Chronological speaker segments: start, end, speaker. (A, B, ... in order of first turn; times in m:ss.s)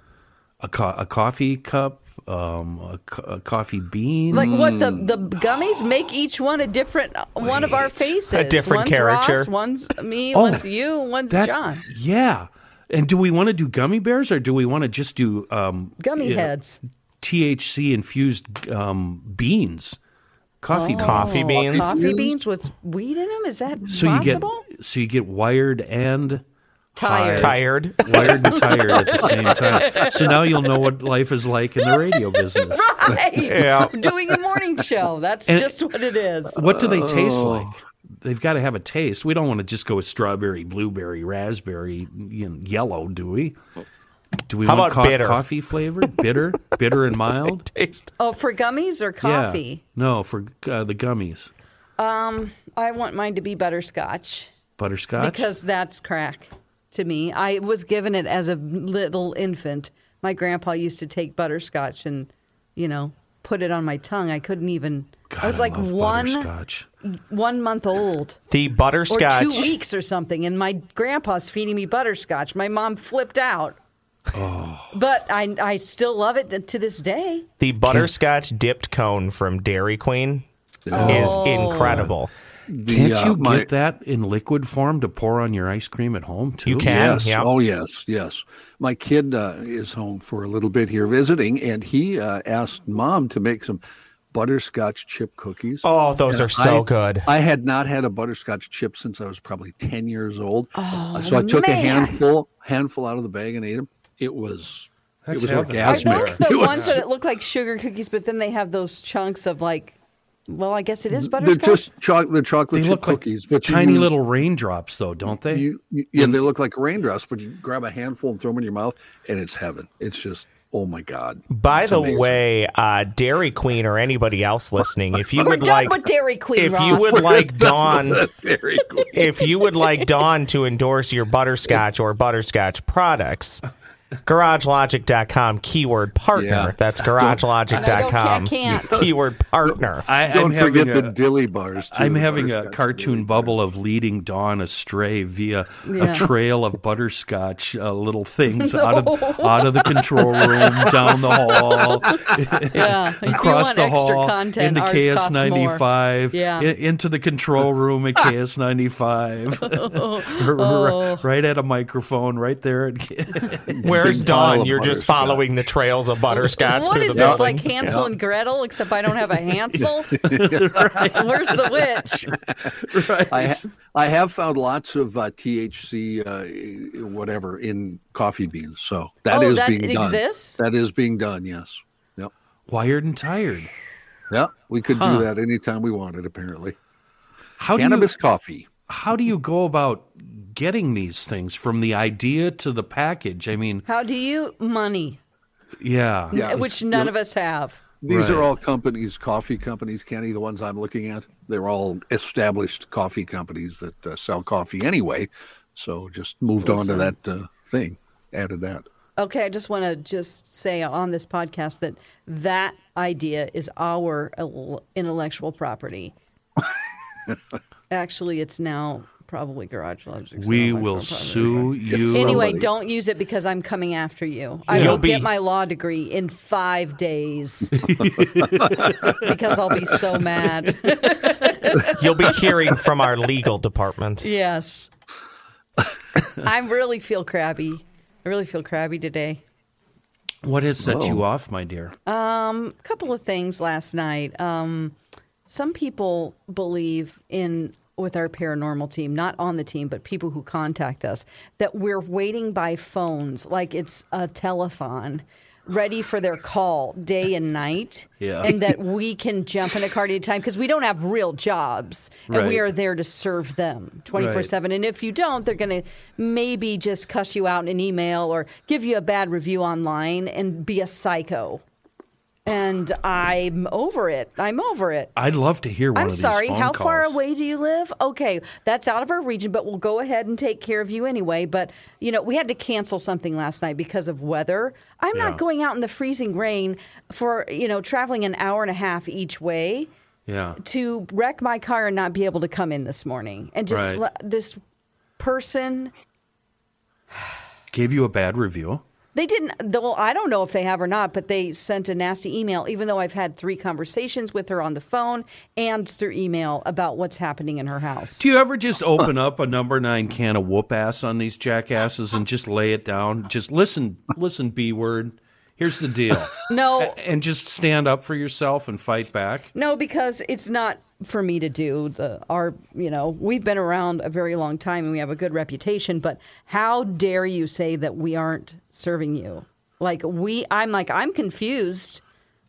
0:00.6-0:04.5 A
0:04.3-0:05.2 B
0:04.3-0:11.8 C
0:07.4-0:08.2 A
0:08.3-0:09.5 D
0:10.3-0:10.7 A
0:11.3-0:16.5 A
0:16.0-0:16.8 C
0:17.2-0:20.0 A
0:20.6-0:21.5 A
0:20.7-0:24.7 C
0:21.0-0:22.1 D
0:21.7-0:22.3 B
0:23.9-0:26.4 A
0:27.0-0:27.6 C
0:27.0-0:33.2 A
0:27.4-0:28.3 D
0:28.3-0:30.6 C
0:31.9-0:36.6 C
0:33.4-0:34.0 D
0:35.5-0:35.8 A
0:36.5-0:43.6 A
0:36.7-0:37.7 B
0:44.5-0:47.7 A
0:44.6-0:45.4 D
0:47.7-0:48.1 D
0:48.2-0:49.8 C
0:49.2-0:51.5 A
0:52.0-0:54.5 C
0:54.8-0:55.5 A
0:55.2-1:06.5 C
1:05.3-1:06.9 A
1:07.0-1:08.4 C
1:08.5-1:09.8 D
1:09.1-1:13.8 C
1:14.3-1:15.0 A
1:14.9-1:17.5 C
1:17.6-1:20.5 D
1:17.9-1:18.1 A
1:20.9-1:21.4 B
1:20.9-1:22.0 C
1:20.9-1:22.1 A
1:21.0-1:22.3 D
1:22.7-1:23.7 B
1:22.9-1:27.2 A
1:26.7-1:27.5 D
1:26.8-1:33.8 B
1:34.3-1:47.0 B
1:35.8-1:37.3 D
1:40.8-1:42.2 C
1:45.2-1:47.0 A
1:45.8-1:50.0 C
1:50.5-1:51.9 C
1:51.1-1:54.1 B
1:52.7-1:56.4 A
1:55.5-2:02.4 B
2:01.5-2:08.2 D
2:05.4-2:07.3 C
2:07.0-2:09.1 B
2:09.1-2:13.6 D
2:14.2-2:20.1 D
2:16.4-2:18.0 B
2:17.7-2:19.1 C
2:18.7-2:19.1 B
2:20.0-2:21.2 A
2:20.3-2:23.6 B
2:21.9-2:44.7 A
2:25.8-2:26.3 C
2:28.6-2:32.2 C
2:32.7-2:36.7 C
2:39.6-2:41.2 C
2:43.7-2:45.5 B
2:43.8-2:48.0 D
2:46.3-2:50.4 C
2:47.1-2:48.2 B
2:49.5-2:52.0 A
2:50.1-2:51.2 B
2:51.0-2:52.3 C
2:52.4-2:52.7 B
2:52.8-2:53.6 A
2:53.3-3:02.3 B
2:59.3-3:00.6 C
3:02.7-3:03.7 A
3:04.3-3:06.8 B
3:04.9-3:05.3 A
3:07.6-3:08.1 A
3:07.8-3:08.7 B
3:08.9-3:13.8 A
3:13.9-3:15.2 C
3:15.8-3:16.7 A
3:16.3-3:17.8 C
3:16.3-3:17.1 B
3:18.0-3:28.8 B
3:18.1-3:18.5 A
3:26.6-3:27.1 C
3:29.2-3:36.2 C
3:37.9-3:47.8 C
3:40.4-3:42.5 A
3:41.9-3:42.7 B
3:44.7-3:45.3 D
3:44.7-3:45.0 A
3:47.8-3:49.3 A
3:48.5-3:49.2 B
3:49.2-3:52.5 C
3:50.4-3:50.9 A
3:52.0-3:54.2 D
3:54.2-3:54.9 C
3:56.4-3:59.4 C
4:00.4-4:02.0 A
4:00.8-4:01.2 B
4:02.1-4:31.6 C
4:18.2-4:18.7 A
4:22.3-4:22.6 A
4:24.2-4:24.5 A
4:32.5-4:35.1 C
4:35.2-4:37.2 A
4:36.0-4:49.9 C
4:45.1-4:45.4 A
4:50.3-4:50.6 A
4:50.6-4:54.6 C
4:53.7-4:54.0 A
4:55.2-4:55.9 C
4:57.7-4:58.8 A
4:59.1-5:08.2 C
5:08.2-5:19.5 A
5:16.5-5:17.0 C
5:19.5-5:32.0 C